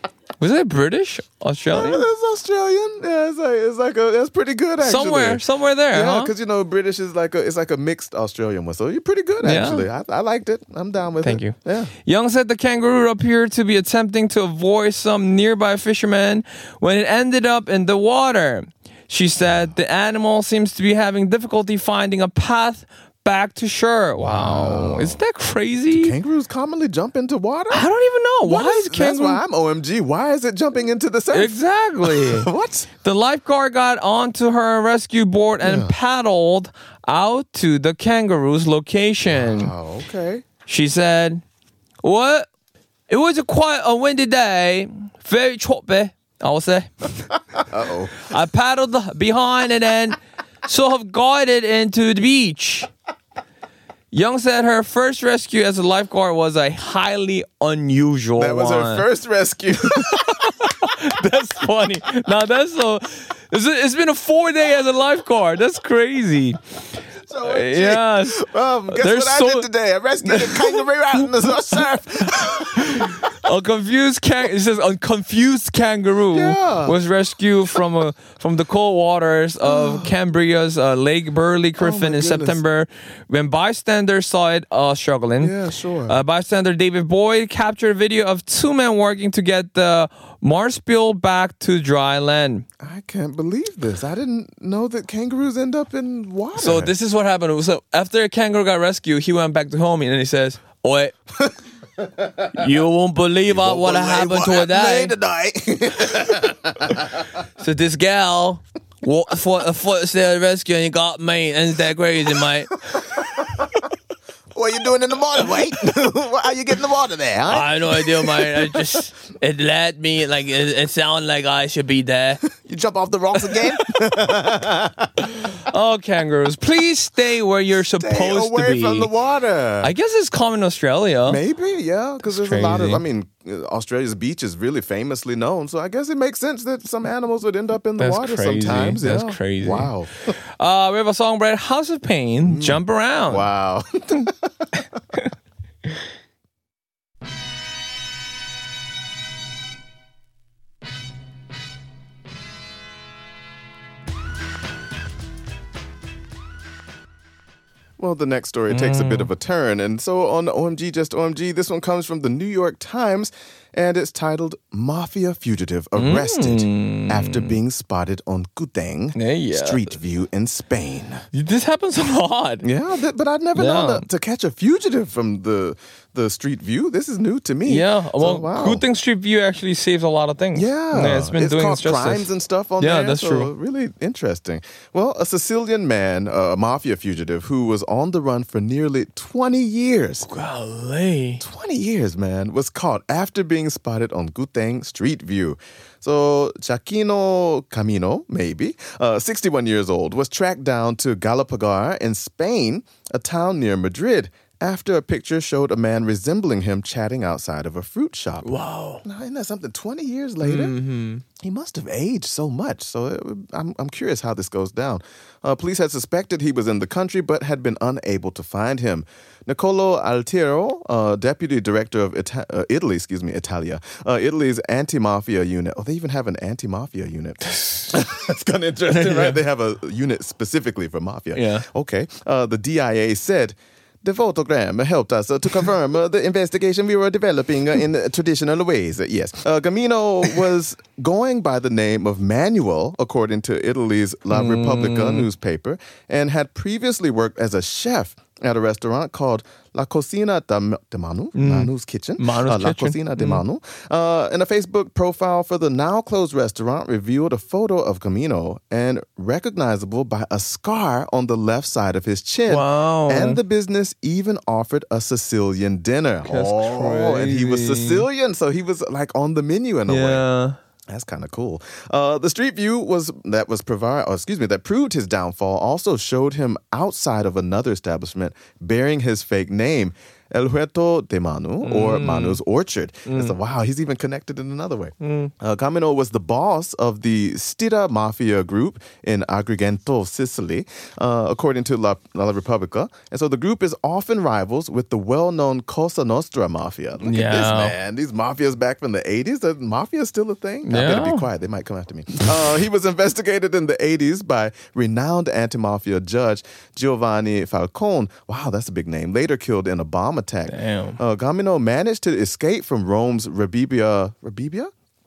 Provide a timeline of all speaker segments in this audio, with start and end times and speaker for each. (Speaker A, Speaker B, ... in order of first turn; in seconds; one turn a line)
Speaker A: 0.4-2.1
Speaker B: 1.7-11.9
Speaker A: 4.8-6.3
Speaker A: 9.4-9.9
Speaker A: 11.2-26.1
Speaker B: 24.2-25.2
Speaker B: 25.9-27.9
Speaker A: 27.7-29.4
Speaker B: 28.4-32.9
Speaker A: 31.3-32.5
Speaker A: 33.0-39.7
Speaker B: 35.6-35.9
Speaker B: 39.3-40.5
Speaker A: 40.7-41.4
Speaker A: 42.0-42.5
Speaker A: 43.1-47.3
Speaker B: 47.5-48.3
Speaker A: 48.2-52.9
Speaker A: 54.1-59.0
Speaker B: 58.4-60.7
Speaker A: 59.8-66.6
Speaker B: 67.3-73.3
Speaker A: 67.5-69.7
Speaker A: 70.2-71.3
Speaker A: 72.2-85.5
Speaker B: 76.3-77.0
Speaker B: 79.7-80.1
Speaker B: 81.8-82.6
Speaker B: 85.4-86.2
Speaker A: 86.1-92.7
Speaker B: 92.8-96.9
Speaker A: 96.6-101.1
Speaker B: 101.4-102.6
Speaker A: 102.5-105.1
Speaker B: 103.5-107.2
Speaker A: 107.6-112.7
Speaker B: 113.1-113.7
Speaker B: 114.5-119.0
Speaker A: 117.5-122.4
Speaker B: 122.4-125.3
Speaker A: 125.7-129.1
Speaker B: 128.0-129.9
Speaker A: 129.8-131.4
Speaker B: 131.3-140.3
Speaker A: 132.3-133.0
Speaker A: 138.0-139.9
Speaker A: 140.6-143.5
Speaker B: 142.4-144.7
Speaker B: 158.0-171.3
Speaker A: 158.7-159.3
Speaker A: 166.0-167.6
Speaker A: 169.2-169.9
Speaker A: 171.3-172.7
Speaker B: 172.6-178.8
Speaker A: 173.6-174.1
Speaker A: 177.7-182.3
Speaker B: 180.6-190.3
Speaker A: 182.8-183.5
Speaker A: 190.2-191.4
Speaker B: 191.4-208.5
Speaker A: 208.4-209.0
Speaker B: 209.0-210.8
Speaker A: 210.4-211.2
Speaker B: 211.4-270.2
Speaker A: 227.5-227.9
Speaker A: 228.9-229.4
Speaker A: 231.3-231.7
Speaker A: 244.3-245.3
Speaker A: 251.3-253.4
Speaker A: 262.5-263.4
Speaker A: 266.2-268.1
Speaker A: 269.9-270.6
Speaker B: 270.9-314.7
Speaker A: 281.6-282.4
Speaker A: 283.1-283.4
Speaker A: 285.0-285.3
Speaker A: 297.0-297.8
Speaker A: 300.7-301.3
Speaker A: 310.5-311.0